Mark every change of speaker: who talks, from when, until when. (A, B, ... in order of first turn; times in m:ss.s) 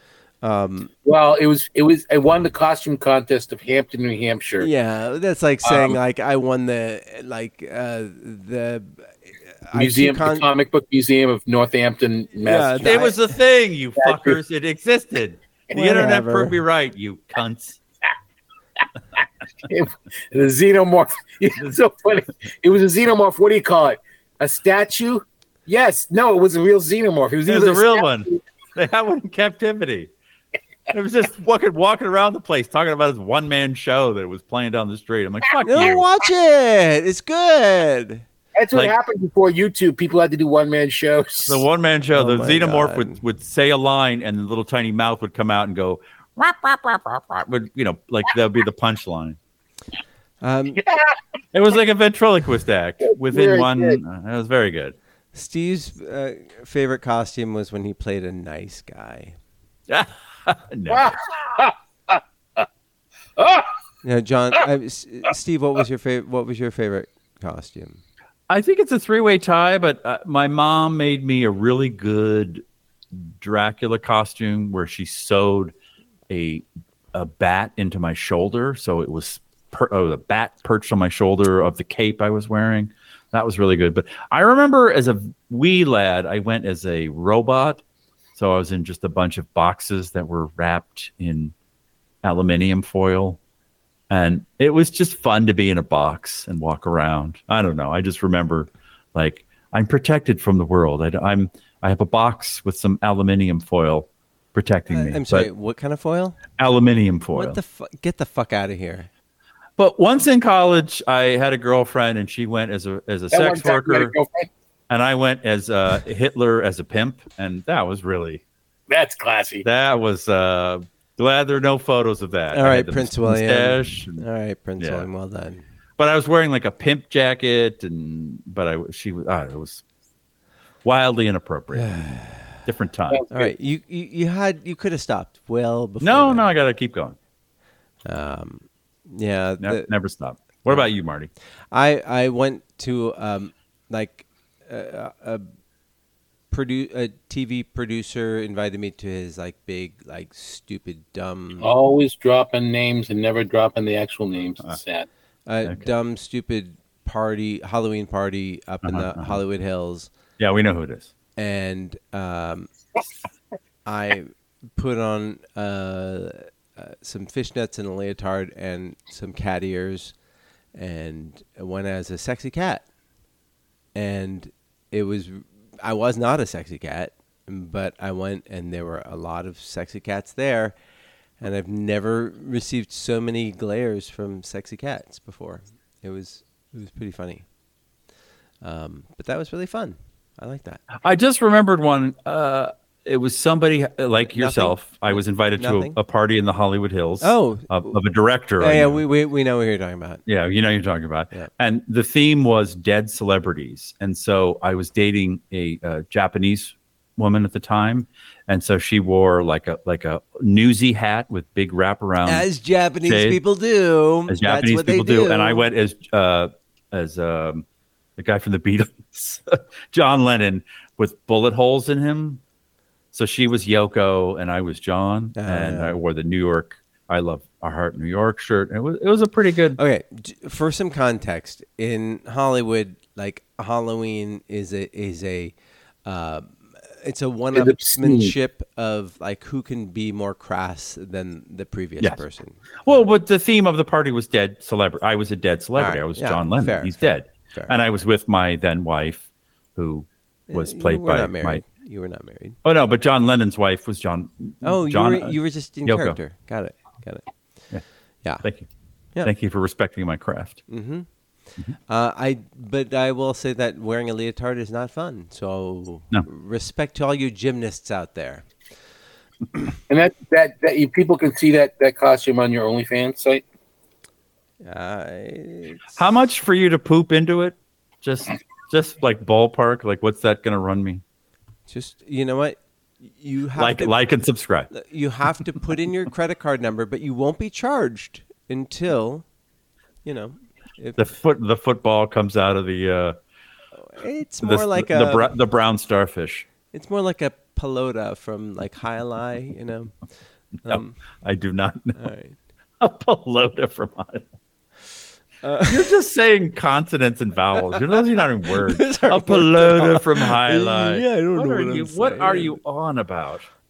0:00.4-0:00.9 A
0:01.1-0:04.7 B
0:04.6-0:09.1 A
0:05.6-0:06.0 B
0:09.7-0:10.5 A
0:09.7-0:13.1 B
0:12.4-0:13.2 A
0:12.8-0:17.8 C
0:14.0-0:14.4 B
0:15.7-0:16.6 A
0:19.7-0:28.4 B
0:27.5-0:30.1 C
0:30.9-0:36.0 C
0:35.6-0:38.2 A
0:38.6-0:41.6 B
0:41.5-0:49.4 C
0:42.1-0:43.2 A
0:50.4-0:50.8 A
0:51.5-0:55.0 C
0:53.1-0:54.0 B
0:55.3-0:59.4 A
0:59.9-1:01.1 C
1:00.9-1:02.6 B
1:03.4-1:03.7 B
1:04.0-1:08.0 A
1:08.5-1:15.7 C
1:16.3-1:27.8 C
1:28.4-1:31.5 C
1:32.2-1:33.4 C
1:34.1-1:45.5 C
1:44.9-1:46.4 A
1:46.6-1:47.6 C
1:47.3-1:49.1 A
1:49.8-1:54.2 C
1:53.3-1:54.5 B
1:54.9-1:58.4 C
1:58.9-1:59.7 B
1:59.6-2:04.2 C
2:02.5-2:05.6 A
2:04.8-2:05.1 C
2:06.0-2:09.8 C
2:10.8-2:12.0 C
2:11.7-2:12.6 A
2:12.7-2:13.2 C
2:13.1-2:13.5 B
2:13.3-2:16.5 A
2:16.0-2:17.2 C
2:18.0-2:19.9 A
2:19.6-2:21.3 C
2:21.7-2:25.5 A
2:26.5-2:31.7 A
2:31.6-2:35.1 B
2:35.5-2:40.1 A
2:38.8-2:39.4 C
2:40.4-2:41.1 C
2:41.4-2:42.7 A
2:43.9-2:50.1 A
2:50.8-2:52.8 A
2:54.0-3:00.8 A
3:01.4-3:07.4 A
3:08.6-3:10.8 A
3:11.0-3:19.0 C
3:14.3-3:16.0 A
3:17.2-3:18.0 A
3:18.6-3:20.2 A
3:20.3-3:32.5 C
3:32.2-3:35.7 A
3:33.0-3:33.4 C
3:34.3-3:37.6 C
3:38.2-3:42.4 C
3:43.1-3:49.8 C
3:45.4-3:46.0 A
3:49.8-3:55.5 A
3:56.1-4:02.6 A
3:57.6-3:58.3 B
4:02.8-4:11.6 C
4:05.8-4:07.0 A
4:10.5-4:12.6 A
4:12.6-4:16.2 C
4:14.6-4:17.3 A
4:18.4-4:18.7 C
4:19.2-4:20.6 C
4:20.7-4:21.1 A
4:21.9-4:28.4 A
4:29.9-4:33.4 B
4:34.6-4:35.9 A
4:36.0-4:41.0 C
4:41.7-4:44.0 A
4:43.6-4:44.7 C
4:44.7-4:49.2 A
4:50.0-4:51.0 A
4:51.0-4:53.2 C
4:53.8-4:55.3 A
4:54.4-4:56.5 C
4:56.7-4:59.9 A
5:00.6-5:01.0 A
5:00.7-5:02.0 C
5:02.0-5:02.4 A
5:02.8-5:04.3 C
5:05.4-5:05.9 A
5:05.7-5:13.5 C
5:08.5-5:12.6 A